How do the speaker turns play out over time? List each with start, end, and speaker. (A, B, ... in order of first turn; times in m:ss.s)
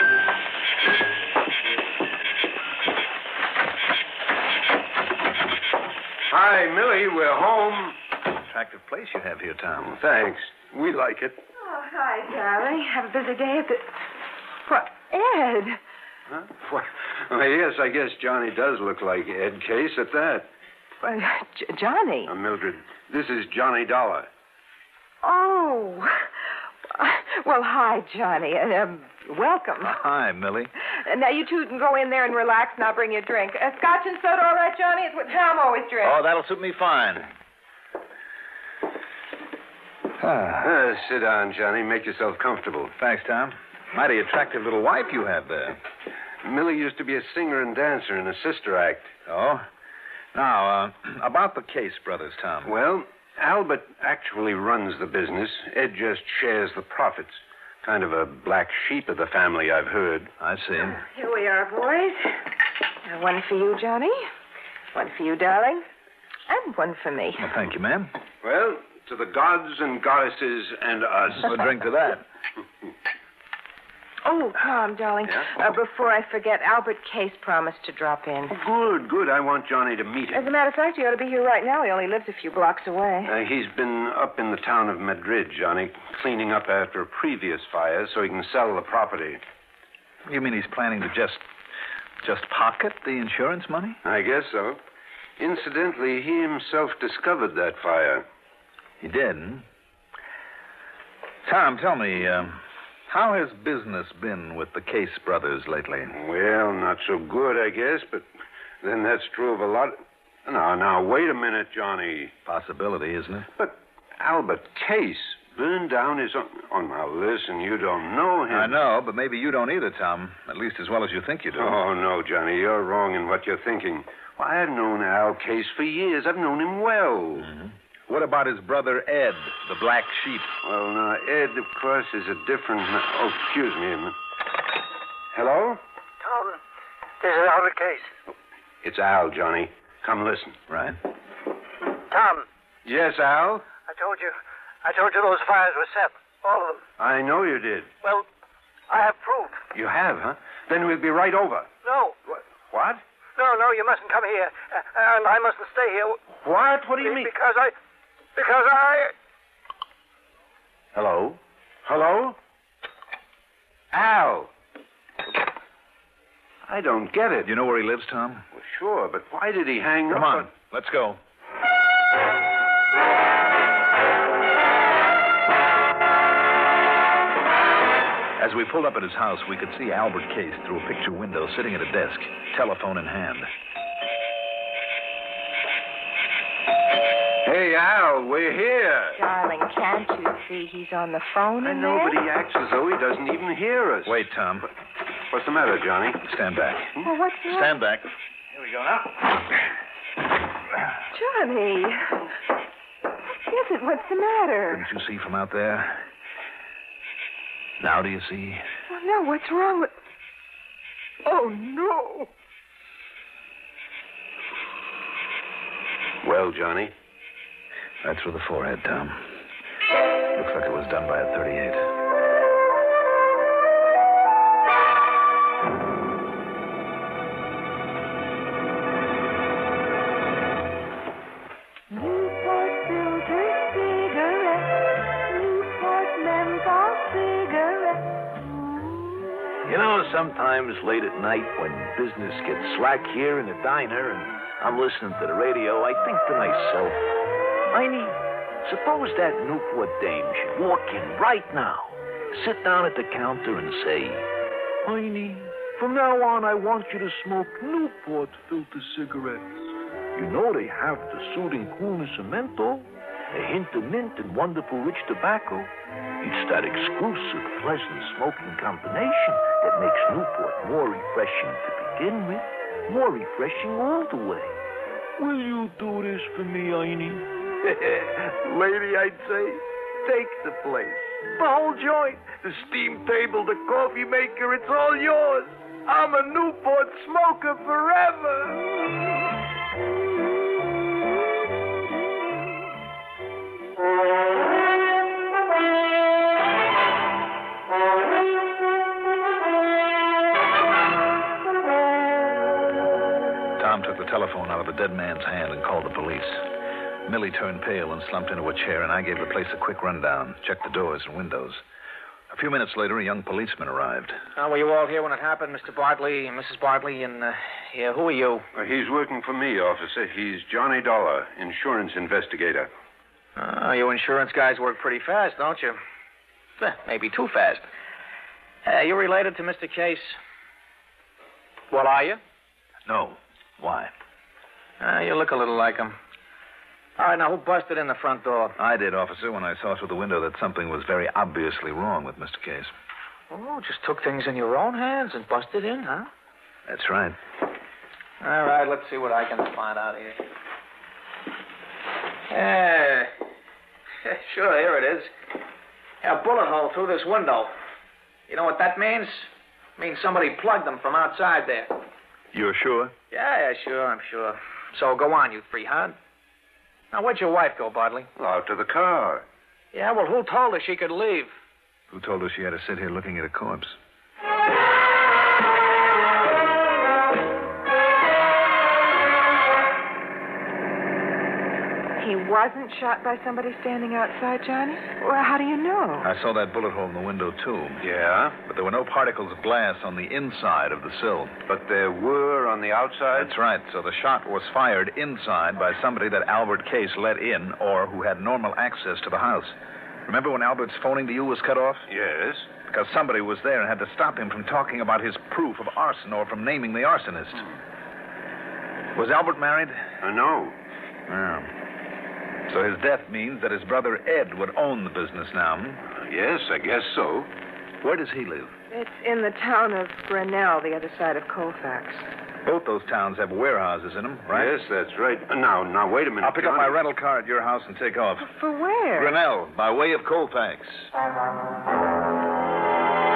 0:06.3-0:07.9 A
0:08.4-0:10.0 B
0:09.8-0:11.4 A
0:11.6-0:13.9 C
0:14.6-0:15.8 C
0:16.3-0:20.5 A
0:21.0-0:22.3 C
0:22.3-0:24.3 A
0:25.2-0:26.2 C
0:26.9-0:30.0 C
0:29.8-0:30.7 B
0:31.0-0:36.2 C
0:36.0-0:37.3 B
0:40.2-0:40.7 B
0:40.6-0:42.9 A
0:43.0-0:45.8 B
0:46.4-0:49.1 A
0:49.3-0:49.6 B
0:50.3-0:52.7 B
0:52.6-1:00.3 A
1:00.4-1:01.0 B
1:00.8-1:02.4 C
1:03.0-1:04.2 C
1:04.9-1:05.8 C
1:06.5-1:07.5 C
1:07.4-1:08.1 B
1:08.4-1:11.6 A
1:11.3-1:12.2 B
1:14.2-1:18.5 C
1:18.5-1:20.4 A
1:20.3-1:23.3 C
1:23.2-1:29.4 A
1:30.2-1:31.4 B
1:32.2-1:34.0 B
1:34.0-1:34.8 A
1:35.4-1:38.2 A
1:39.0-1:39.6 B
1:41.4-1:46.1 B
1:46.1-1:48.2 A
1:48.8-1:52.3 A
1:52.4-1:53.5 B
1:53.6-1:58.7 A
1:58.5-2:01.8 B
2:01.6-2:07.5 A
2:07.4-2:10.5 B
2:10.6-2:14.2 A
2:15.3-2:15.8 A
2:16.2-2:16.6 D
2:17.2-2:18.1 D
2:18.8-2:20.6 A
2:20.7-2:21.0 B
2:22.1-2:22.4 D
2:22.8-2:23.6 A
2:23.9-2:26.8 D
2:27.0-2:27.9 A
2:28.9-2:29.6 D
2:29.7-2:31.7 A
2:31.8-2:32.2 D
2:32.7-2:33.0 A
2:33.4-2:36.2 D
2:36.4-2:37.3 A
2:37.0-2:37.7 D
2:38.4-2:39.1 D
2:41.0-2:41.4 B
2:41.8-2:42.4 A
2:43.9-2:44.5 A
2:46.6-2:47.5 A
2:47.4-2:48.4 B
2:48.5-2:50.5 A
2:50.1-2:51.2 B
2:58.4-3:03.5 B
3:07.4-3:09.2 A
3:09.2-3:12.2 C
3:11.6-3:14.2 A
3:14.0-3:14.7 B
3:15.3-3:16.2 A
3:16.2-3:17.0 B
3:17.0-3:17.7 C
3:17.5-3:19.1 B
3:21.1-3:22.2 C
3:23.4-3:24.8 C
3:24.7-3:26.0 B
3:27.8-3:28.6 B
3:28.9-3:29.9 C
3:31.2-3:32.3 C
3:36.2-3:36.9 A
3:38.0-3:39.4 B
3:40.3-3:41.9 B
3:51.9-3:54.7 C
3:55.2-3:58.8 C
3:59.6-4:07.0 E
4:07.7-4:14.2 E
4:14.8-4:34.6 E
4:35.2-4:48.9 E
5:03.6-5:06.5 B
5:07.0-5:11.6 B
5:12.3-5:14.2 B
5:14.4-5:18.4 F
5:18.5-5:22.7 A
5:23.4-5:25.8 F
5:26.6-5:27.6 F
5:28.6-5:30.2 F
5:31.7-5:32.2 F
5:32.9-5:33.9 B
5:34.8-5:36.0 F
5:37.0-5:38.6 F
5:38.6-5:42.7 B
5:43.3-5:46.1 F
5:46.7-5:47.2 B
5:48.2-5:50.2 F
5:52.3-5:53.1 F
5:54.0-5:55.1 F
5:56.0-5:57.5 F
5:58.3-6:01.8 F
6:02.3-6:02.9 B
6:03.1-6:06.0 F
6:06.9-6:08.1 F
6:08.2-6:09.2 A
6:09.7-6:11.3 F
6:11.9-6:13.8 B
6:22.0-6:26.1 C
6:26.0-6:27.8 B
6:27.8-6:28.4 A
6:28.4-6:31.4 B
6:31.5-6:33.3 A
6:33.1-6:39.5 B
6:40.0-6:41.9 B
6:41.9-6:42.5 A
6:42.7-6:47.4 B
6:48.9-6:49.8 B
6:50.0-6:50.6 A
6:51.1-6:51.5 B
6:52.5-6:55.8 B
6:55.9-6:57.3 A
6:57.8-6:58.5 B
6:58.7-7:02.1 C
7:02.4-7:04.5 B
7:04.3-7:06.8 A
7:06.2-7:08.3 B
7:08.2-7:09.1 C
7:08.9-7:10.9 B